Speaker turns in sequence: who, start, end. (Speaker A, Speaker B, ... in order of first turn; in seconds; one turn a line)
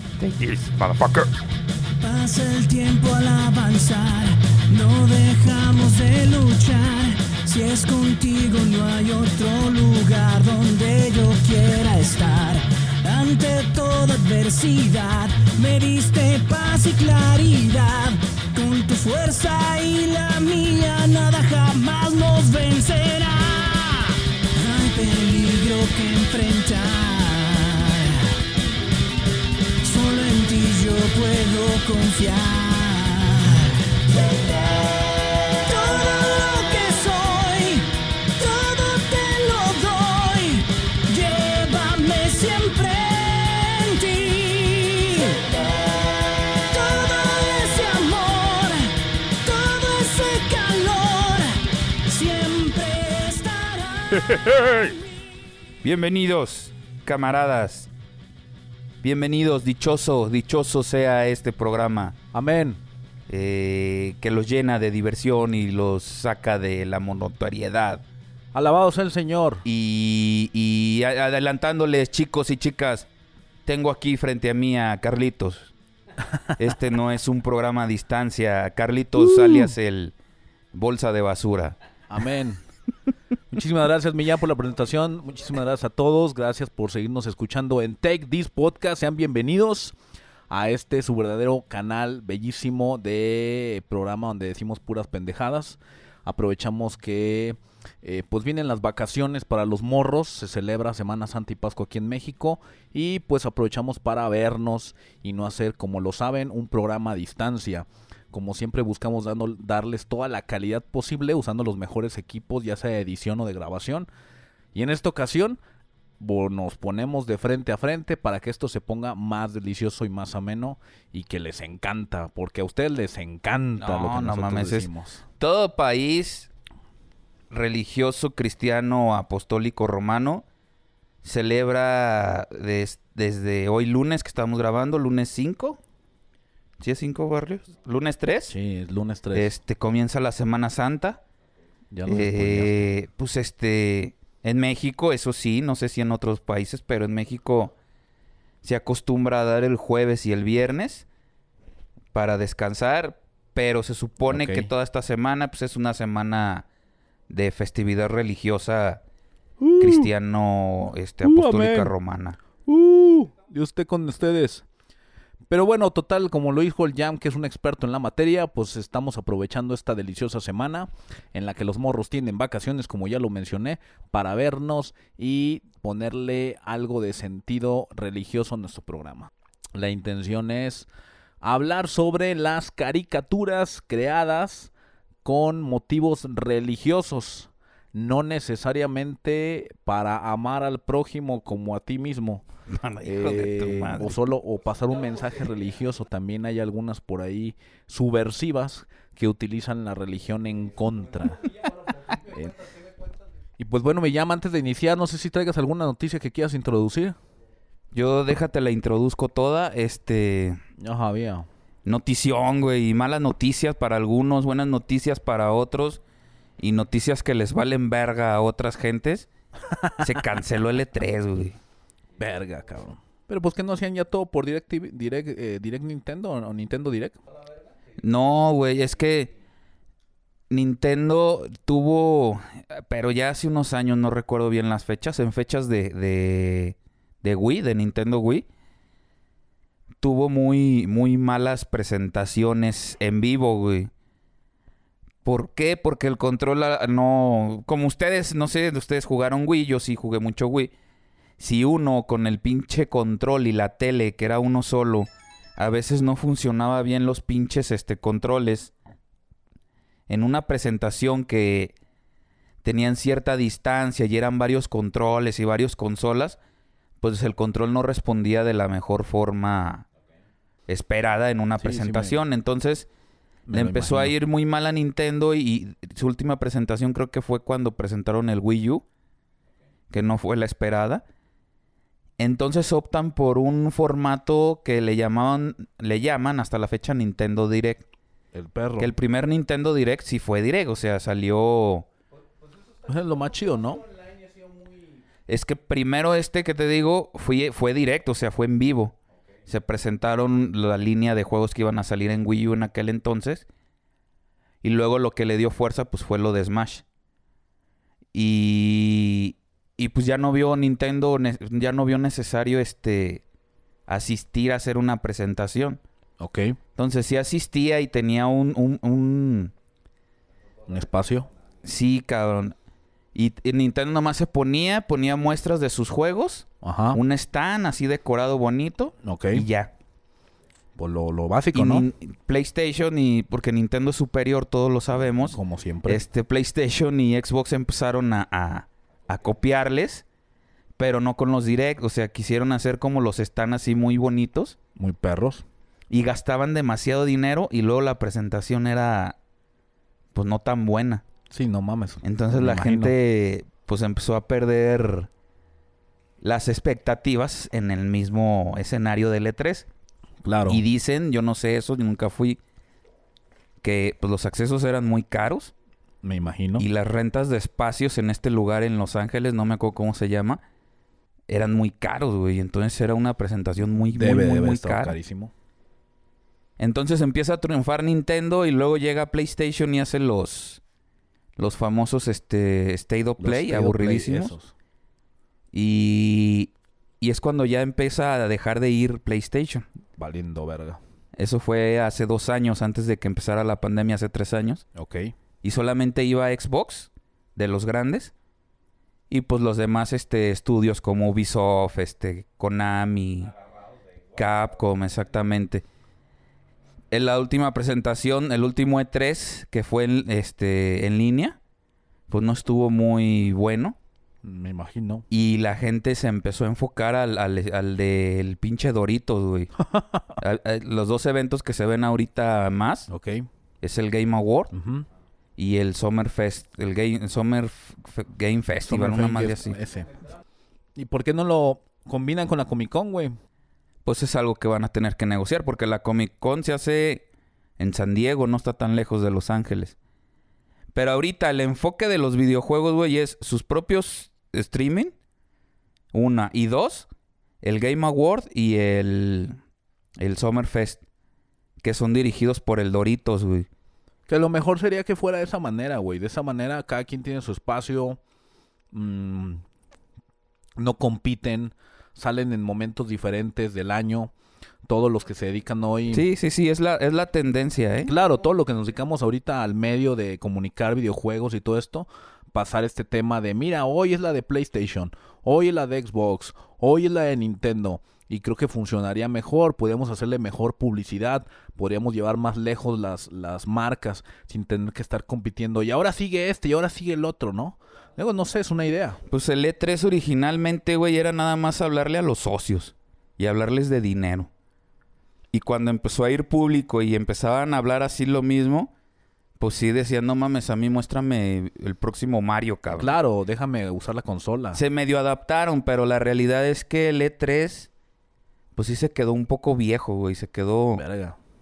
Speaker A: 0.2-1.3
Speaker B: 2.0-28.4
Speaker B: 29.8-55.1
Speaker A: 54.2-54.9
Speaker A: 55.8-57.9
Speaker A: 59.0-62.2
Speaker C: 62.3-62.8
Speaker A: 63.3-68.0
Speaker C: 68.5-69.7
Speaker A: 69.7-73.1
Speaker A: 73.7-75.7
Speaker A: 76.6-80.1
Speaker C: 79.3-79.7
Speaker A: 80.7-81.8
Speaker C: 82.1-82.6
Speaker C: 83.5-90.0
Speaker C: 90.5-114.1
Speaker C: 114.7-115.6
Speaker C: 116.2-125.2
Speaker A: 123.8-126.5
Speaker A: 127.5-130.4
Speaker A: 131.2-135.8
Speaker A: 136.8-138.6
Speaker C: 138.5-139.5
Speaker A: 139.3-141.2
Speaker C: 141.9-142.9
Speaker A: 142.1-147.7
Speaker A: 148.6-151.1
Speaker A: 152.1-156.7
Speaker C: 154.3-154.7
Speaker A: 157.3-159.0
Speaker C: 159.6-160.1
Speaker A: 159.8-162.4
Speaker C: 161.2-161.9
Speaker C: 162.7-164.7
Speaker C: 165.5-180.9
Speaker C: 181.4-184.7
Speaker C: 185.2-192.4
Speaker A: 192.7-194.2
Speaker C: 193.0-201.5
Speaker C: 202.1-202.7
Speaker C: 203.6-207.2
Speaker A: 207.9-210.6
Speaker C: 210.8-211.5
Speaker A: 211.8-216.0
Speaker A: 216.6-219.3
Speaker A: 220.0-221.6
Speaker C: 222.2-227.2
Speaker A: 228.0-229.3
Speaker A: 230.5-238.5
Speaker A: 240.0-243.9
Speaker A: 245.2-250.7
Speaker A: 251.4-258.7
Speaker A: 260.1-261.8
Speaker A: 262.6-266.4
Speaker A: 267.0-269.9
Speaker A: 270.7-272.9
Speaker C: 271.6-272.2
Speaker C: 273.5-274.1
Speaker A: 273.5-278.8
Speaker A: 279.9-281.0
Speaker A: 282.2-287.8
Speaker C: 288.3-288.9
Speaker A: 288.8-291.9
Speaker C: 292.9-293.9
Speaker A: 295.3-303.5
Speaker A: 304.6-306.8
Speaker A: 308.1-313.2
Speaker A: 313.9-315.8
Speaker C: 316.2-316.6
Speaker A: 316.8-319.5
Speaker C: 320.7-321.3
Speaker A: 321.6-322.6
Speaker A: 323.1-329.7
Speaker C: 326.6-327.0
Speaker C: 329.0-329.5
Speaker C: 330.8-331.9
Speaker A: 331.5-340.1
Speaker C: 335.3-336.0
Speaker A: 340.8-344.6
Speaker C: 344.8-345.4
Speaker A: 345.9-349.2
Speaker A: 350.1-351.0
Speaker C: 351.3-352.9
Speaker A: 352.0-355.1
Speaker A: 356.2-359.7
Speaker C: 360.2-360.6
Speaker A: 360.5-362.4
Speaker A: 363.6-365.5
Speaker C: 366.0-366.7
Speaker A: 366.6-370.4
Speaker A: 371.3-375.0
Speaker C: 373.9-375.3
Speaker A: 376.6-380.6
Speaker A: 381.4-384.4
Speaker C: 383.2-384.5
Speaker A: 385.5-389.7
Speaker C: 390.0-390.8
Speaker A: 391.1-394.6
Speaker C: 394.8-395.1
Speaker A: 395.4-398.1
Speaker A: 399.1-403.3
Speaker A: 404.1-405.6
Speaker A: 406.9-411.4
Speaker A: 412.1-413.8
Speaker C: 414.2-415.1
Speaker A: 415.1-419.5
Speaker C: 419.7-420.1
Speaker A: 420.2-422.9
Speaker C: 422.9-423.3
Speaker A: 423.6-424.5
Speaker C: 424.5-424.9
Speaker A: 425.4-429.6
Speaker C: 428.7-429.9
Speaker C: 430.8-433.2
Speaker A: 433.9-437.1
Speaker A: 437.6-439.8
Speaker A: 440.7-444.9
Speaker A: 445.9-446.9
Speaker A: 447.4-449.4
Speaker A: 450.0-450.8
Speaker A: 451.6-453.5
Speaker C: 454.1-458.0
Speaker C: 458.7-459.4
Speaker C: 460.6-464.1
Speaker C: 464.7-466.1
Speaker A: 465.9-467.9
Speaker C: 467.9-489.0
Speaker A: 489.1-494.3
Speaker A: 495.3-498.7
Speaker A: 499.4-502.9
Speaker C: 502.7-504.6
Speaker A: 504.5-507.7
Speaker A: 508.6-510.8
Speaker C: 510.8-511.2